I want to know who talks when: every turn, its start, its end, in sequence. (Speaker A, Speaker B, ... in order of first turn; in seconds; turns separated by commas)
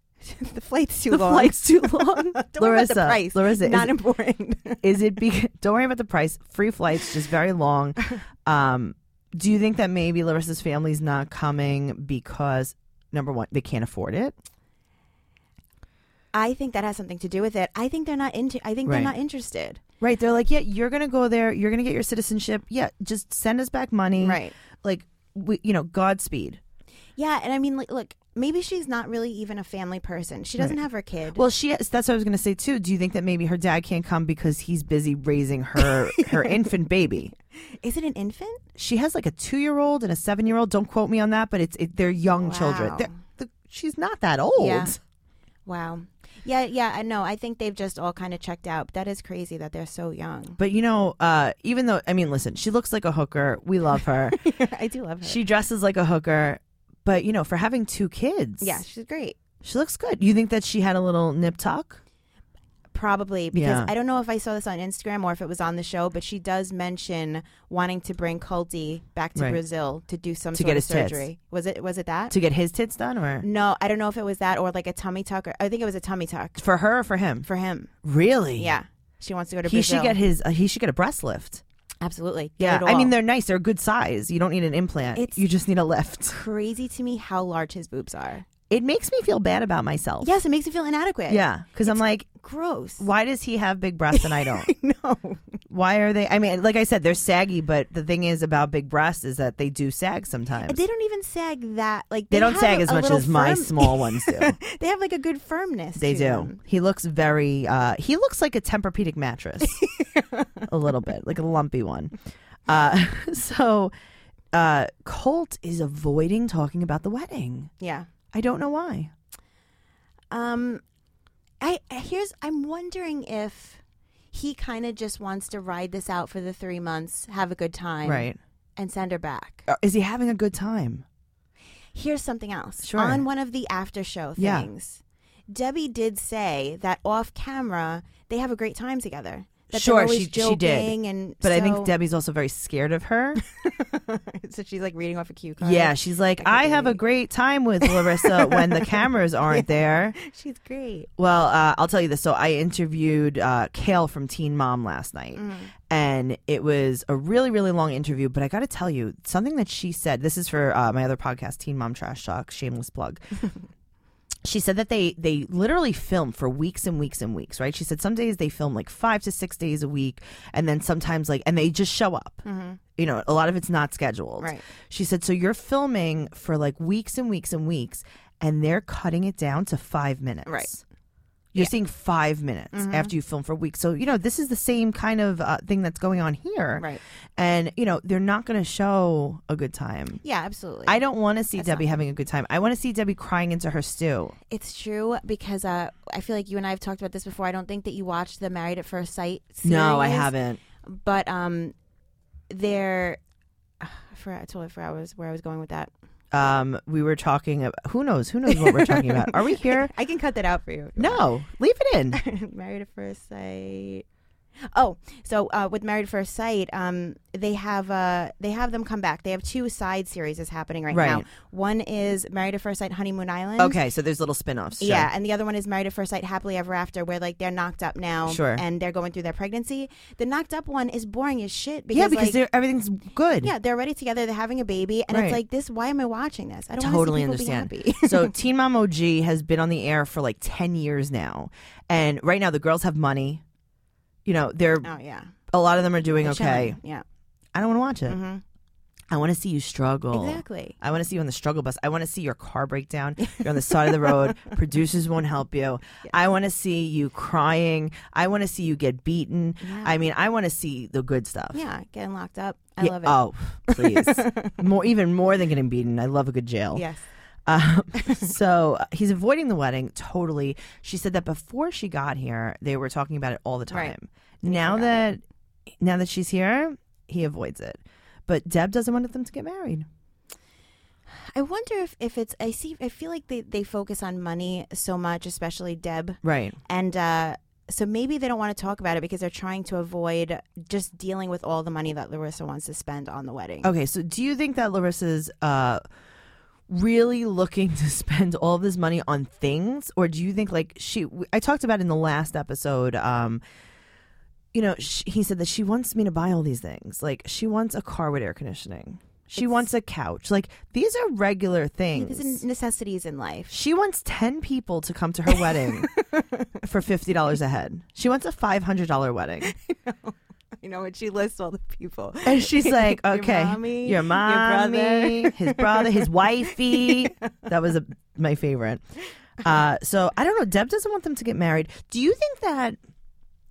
Speaker A: 0.2-4.8, Speaker B: 1.1-4.0, Speaker B: 4.8-14.3, Speaker A: 16.3-19.8, Speaker B: 18.9-19.1, Speaker B: 20.0-26.6, Speaker A: 24.2-24.5, Speaker A: 27.1-31.4, Speaker B: 31.3-37.3, Speaker A: 35.8-36.7, Speaker A: 37.6-38.6, Speaker B: 38.8-45.0, Speaker A: 42.4-43.1, Speaker A: 44.5-44.9, Speaker A: 45.6-50.6, Speaker B: 50.6-54.5, Speaker A: 54.3-55.4, Speaker B: 55.2-58.8, Speaker A: 58.6-59.4, Speaker B: 59.6-62.0, Speaker A: 62.9-72.3, Speaker B: 63.5-63.9, Speaker B: 70.5-71.3, Speaker B: 72.3-73.5, Speaker A: 73.4-76.6, Speaker B: 76.6-77.5, Speaker A: 77.4-77.9, Speaker B: 78.0-78.7, Speaker A: 78.6-80.2, Speaker B: 79.7-81.6, Speaker A: 82.0-83.1, Speaker B: 82.6-86.4, Speaker A: 85.1-85.5, Speaker A: 86.3-88.5, Speaker B: 88.7-90.3, Speaker A: 90.2-93.0, Speaker B: 91.3-92.3, Speaker B: 93.0-94.7, Speaker A: 94.1-95.4, Speaker B: 95.7-100.8, Speaker A: 100.6-106.6, Speaker B: 102.3-104.6, Speaker B: 106.0-109.8, Speaker A: 109.6-110.6, Speaker B: 110.7-112.1, Speaker B: 112.7-113.9, Speaker B: 114.5-117.7, Speaker A: 117.8-118.1, Speaker B: 118.3-119.1, Speaker A: 120.3-120.8, Speaker A: 121.6-123.8, Speaker A: 124.3-129.6, Speaker B: 128.0-128.4, Speaker B: 129.7-131.0, Speaker A: 131.9-141.9, Speaker B: 132.8-133.2, Speaker B: 134.4-134.7, Speaker B: 139.7-143.4, Speaker A: 143.4-147.0, Speaker B: 145.6-150.2, Speaker A: 147.8-151.1, Speaker B: 151.2-163.4, Speaker A: 155.3-155.7, Speaker B: 164.4-172.4, Speaker A: 172.4-172.8, Speaker B: 173.0-180.8, Speaker A: 180.4-180.7, Speaker B: 181.5-190.2, Speaker A: 182.7-183.1, Speaker A: 190.2-191.0, Speaker B: 190.8-194.3, Speaker A: 191.6-191.9, Speaker A: 194.5-200.3, Speaker B: 199.6-200.6, Speaker A: 200.8-201.7, Speaker A: 202.5-203.2, Speaker A: 203.8-205.9, Speaker B: 206.3-209.9, Speaker A: 208.5-211.2, Speaker B: 211.0-212.2, Speaker A: 212.1-214.0, Speaker A: 214.7-223.8, Speaker B: 220.9-221.2, Speaker B: 223.6-225.1, Speaker A: 224.8-232.4, Speaker B: 228.3-228.6, Speaker B: 231.9-233.5, Speaker A: 233.4-238.3, Speaker B: 235.1-235.4, Speaker B: 236.8-243.4, Speaker B: 244.2-244.9, Speaker A: 244.8-245.3, Speaker B: 245.5-246.8, Speaker A: 246.2-247.0, Speaker B: 247.5-248.2, Speaker A: 248.1-248.4, Speaker B: 249.1-261.6, Speaker A: 250.1-250.8, Speaker A: 253.2-254.5, Speaker A: 259.6-260.0, Speaker A: 261.5-264.6, Speaker B: 262.8-266.9, Speaker A: 266.7-267.0, Speaker B: 267.5-275.2, Speaker A: 273.7-275.1, Speaker B: 275.8-279.9, Speaker A: 281.1-293.7, Speaker B: 286.2-286.6, Speaker B: 293.6-295.8, Speaker B: 296.7-303.4, Speaker B: 304.5-312.4, Speaker A: 311.9-313.5, Speaker B: 313.5-315.9, Speaker A: 315.3-316.5, Speaker B: 316.6-319.5, Speaker A: 319.4-327.1, Speaker B: 322.2-328.8, Speaker B: 329.4-332.8